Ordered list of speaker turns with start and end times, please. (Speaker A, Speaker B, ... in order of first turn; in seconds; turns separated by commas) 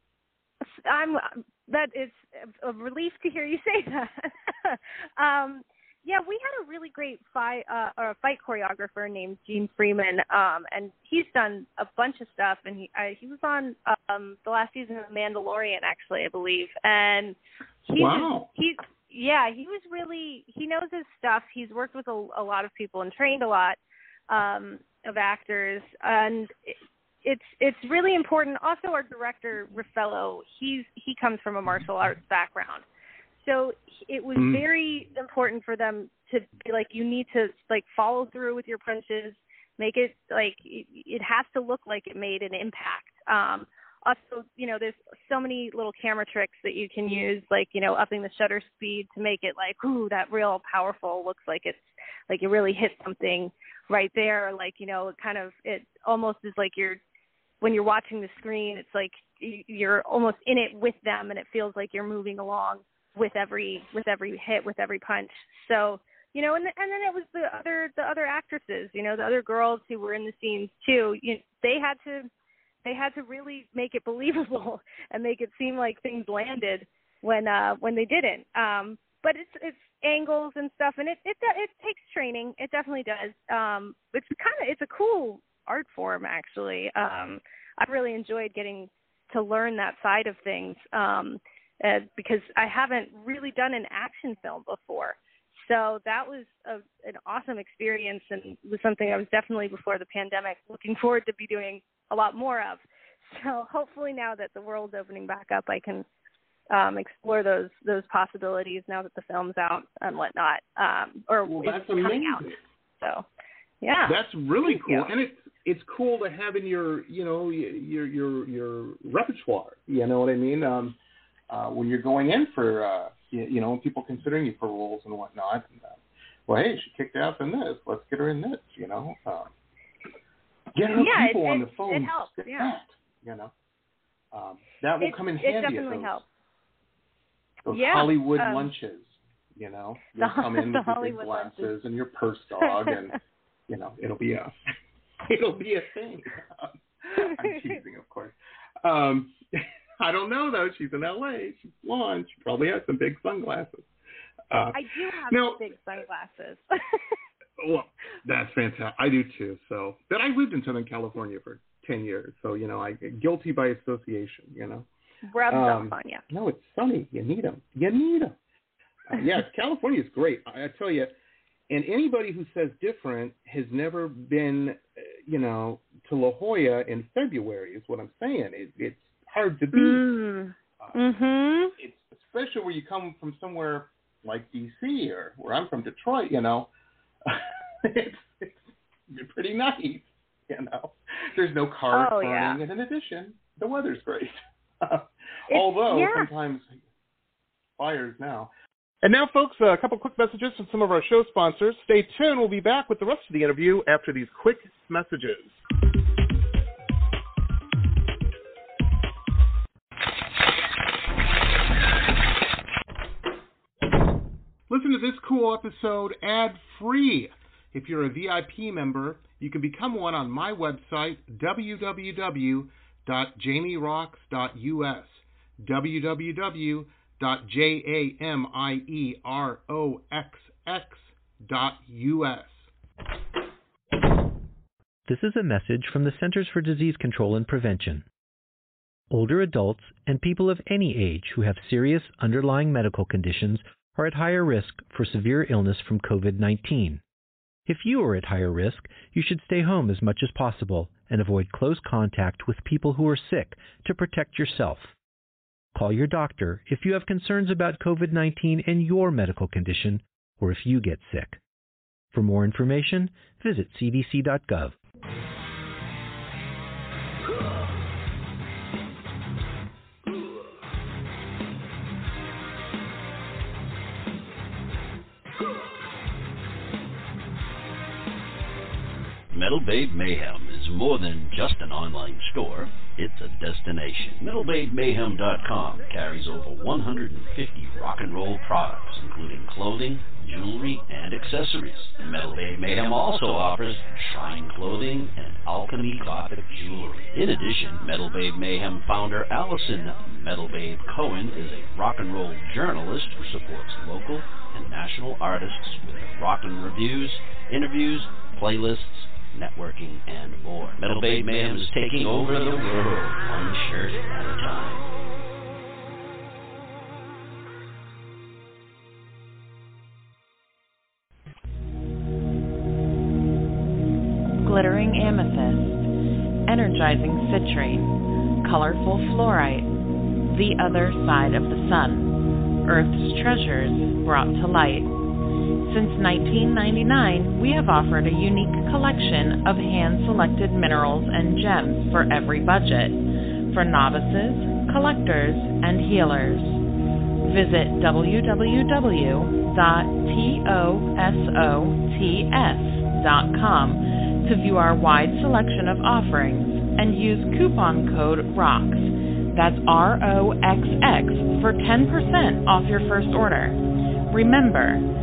Speaker A: 0.7-23.8, Speaker B: 17.9-18.5, Speaker A: 24.3-32.8, Speaker A: 33.4-57.0, Speaker B: 34.4-34.6, Speaker A: 57.6-72.3, Speaker A: 72.8-106.0, Speaker A: 106.7-112.5, Speaker B: 111.4-112.6, Speaker A: 113.0-113.2, Speaker A: 113.8-115.1, Speaker B: 114.0-121.0, Speaker B: 121.5-129.5, Speaker B: 130.8-133.5, Speaker A: 130.9-132.7, Speaker B: 134.3-136.2, Speaker A: 135.0-136.2, Speaker B: 137.6-143.2, Speaker A: 137.7-138.7, Speaker A: 140.2-141.7, Speaker B: 143.7-144.5, Speaker B: 145.3-149.4, Speaker A: 147.2-147.6, Speaker B: 150.0-153.9, Speaker B: 154.5-155.7, Speaker A: 154.7-157.1, Speaker B: 157.6-164.9, Speaker A: 165.3-166.2, Speaker B: 165.5-168.4, Speaker B: 169.1-171.1, Speaker B: 171.7-180.0, Speaker A: 179.7-181.7, Speaker B: 181.8-186.7, Speaker B: 187.2-188.6, Speaker B: 189.1-196.8, Speaker A: 191.9-192.6, Speaker A: 195.5-196.3, Speaker B: 197.8-198.5, Speaker B: 199.0-205.5, Speaker B: 214.7-232.7, Speaker C: 235.1-238.0, Speaker C: 239.1-247.0, Speaker C: 247.7-254.9, Speaker C: 255.7-261.4, Speaker C: 262.1-264.7, Speaker D: 279.3-314.9, Speaker E: 324.5-325.7, Speaker E: 326.5-327.9, Speaker E: 328.5-329.6, Speaker E: 330.4-332.0, Speaker E: 332.7-334.8, Speaker E: 335.7-342.9, Speaker E: 343.5-346.5, Speaker E: 347.3-358.8, Speaker E: 359.4-363.6, Speaker E: 364.1-364.8